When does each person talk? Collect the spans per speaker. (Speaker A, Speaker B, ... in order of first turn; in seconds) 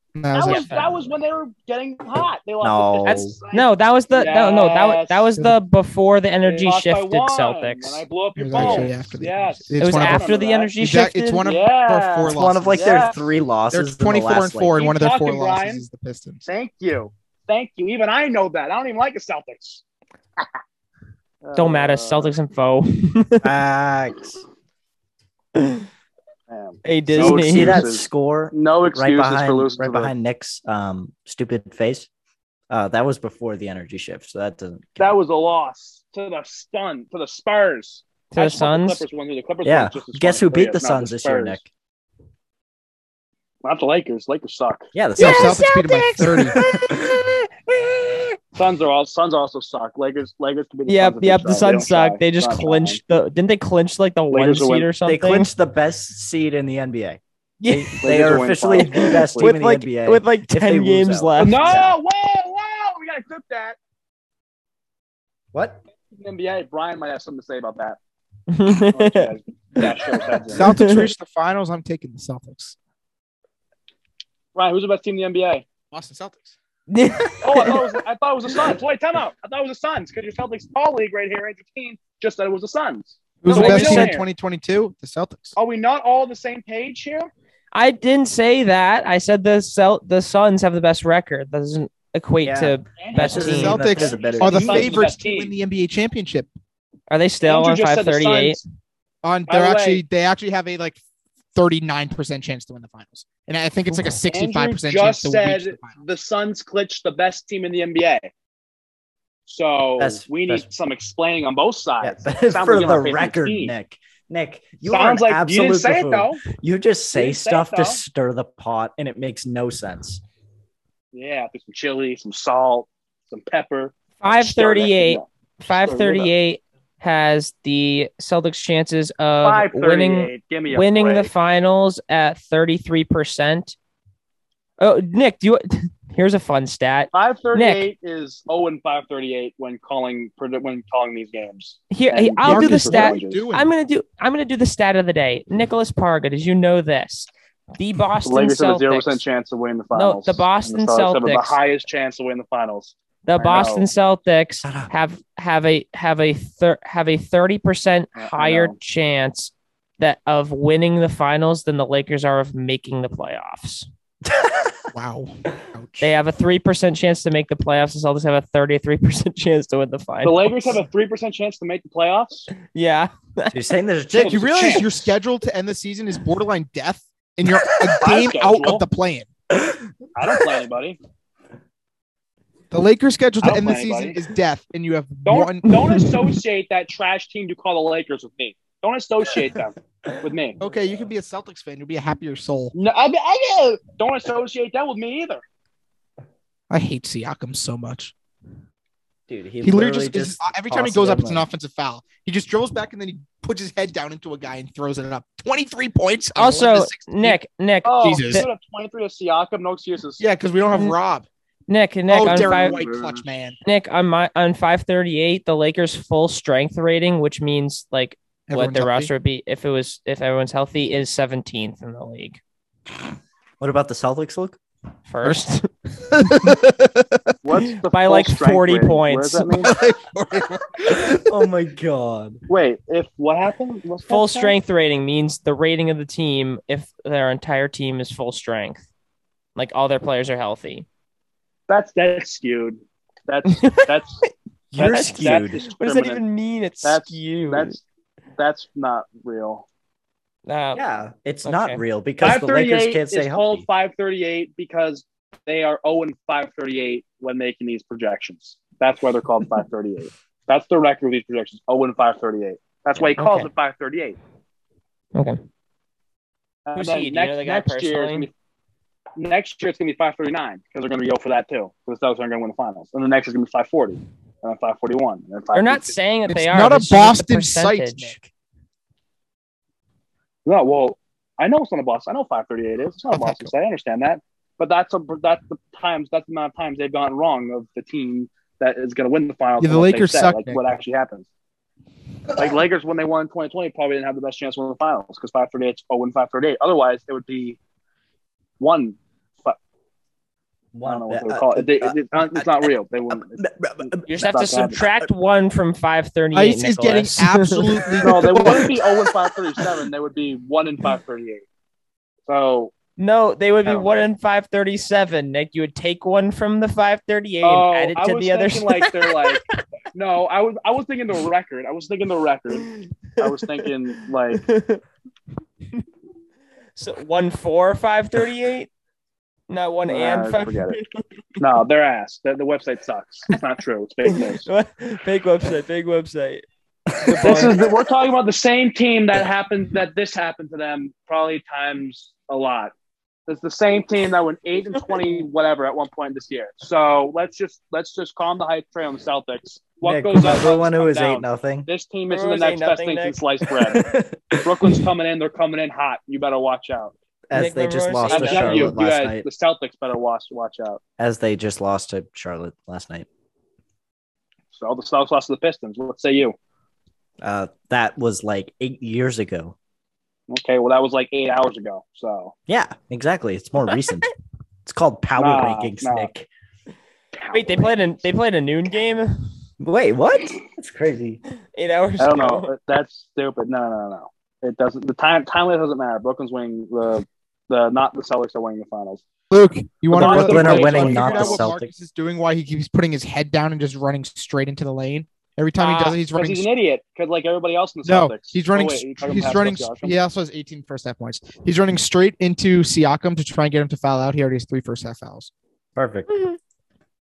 Speaker A: 0.1-1.1, 8.4-12.9, 13.7-16.4, 45.2-46.6, 70.5-72.8, 75.9-76.5, 83.4-85.5, 93.2-96.5, 99.2-101.0, 101.5-105.9, 142.4-143.7, 164.9-166.1, 174.2-179.3, 182.7-186.0, 190.6-192.7, 196.7-198.1, 199.6-207.4, 208.0-208.4, 210.2-211.3, 212.1-213.6, 218.5-219.1, 226.0-227.3, 229.5-231.2, 276.3-278.3, 283.1-283.5, 289.6-290.6, 306.3-308.8, 389.3-396.5, 397.8-405.3
Speaker B: 0.3-5.3, 6.4-10.7, 11.4-13.3, 14.7-15.8, 16.4-19.8, 21.4-22.3, 26.5-30.1, 35.0-41.6, 43.6-44.9, 48.5-53.0, 54.3-54.9, 58.0-59.5, 61.4-63.8, 66.1-68.0, 68.8-70.6, 74.5-75.6, 77.4-84.3, 85.5-87.3, 93.0-95.5, 97.4-98.6, 99.5-100.0, 104.3-108.3, 109.5-113.7, 114.8-116.5, 117.1-118.0, 121.1-126.3, 129.4-131.3, 137.1-143.5, 148.2-153.8, 158.2-158.8, 170.2-172.5, 174.1-174.9, 178.0-178.8, 180.2-181.0, 183.4-184.2, 185.2-190.6, 192.7-195.4, 207.8-210.2, 212.2-213.2, 227.4-229.7, 232.5-234.6, 241.7-244.2, 244.8-246.2, 246.8-247.8, 248.4-249.7, 252.2-264.2, 266.6-268.3, 269.1-275.9, 280.4-291.3, 292.3-297.6, 298.6-299.6, 300.8-304.8, 308.0-311.4, 312.3-312.7, 317.4-324.4, 329.9-330.8, 331.4-334.5, 337.2-342.7, 343.3-353.9, 354.4-356.9, 358.1-360.8, 364.5-366.3, 370.3-372.3, 375.1-376.1, 377.1-377.8, 382.0-389.0, 389.9-391.5, 396.1-399.9
Speaker C: 0.5-0.9, 3.0-8.0, 9.8-11.5, 21.6-23.5, 25.5-25.9, 26.8-27.9, 38.3-39.0, 45.2-47.4, 50.9-55.5, 57.6-58.0, 58.7-61.8, 68.5-71.1, 76.9-77.8, 83.5-84.1, 87.7-93.8, 97.1-98.6, 124.2-133.8, 134.8-137.9, 141.9-149.2, 149.9-151.6, 153.2-163.9, 166.0-170.8, 172.7-173.5, 185.7-186.1, 206.3-208.5, 211.7-212.8, 213.6-222.4, 225.1-225.7, 227.9-229.6, 234.1-238.9, 239.5-240.8, 243.6-247.8, 250.4-250.8, 251.4-251.8, 263.2-263.5, 265.1-265.4, 266.8-268.3, 275.5-278.1, 304.1-307.8, 313.0-319.6, 322.6-323.7, 324.3-324.8, 326.8-328.7, 329.5-331.0, 334.1-336.4, 337.0-337.6, 352.1-353.2, 357.3-358.8, 377.3-379.3, 381.5-382.5, 395.6-396.0, 406.1-406.4
Speaker D: 2.6-3.4, 8.6-8.9, 12.3-14.8, 23.4-24.4, 27.1-32.1, 32.7-35.1, 39.6-41.7, 44.9-45.6, 46.5-47.1, 55.0-61.9, 65.5-65.8, 92.4-95.0, 110.0-110.7, 112.0-120.2, 154.6-154.9, 164.2-164.8, 173.5-174.8, 199.3-201.4, 223.6-224.6, 230.8-232.4, 244.7-245.6, 250.7-253.6, 300.7-304.3, 304.8-305.1, 349.8-351.7, 353.7-354.9, 357.3-359.2, 361.0-363.1, 367.2-369.5, 372.5-374.1, 374.6-376.3, 379.6-381.2, 389.9-391.7, 405.8-406.1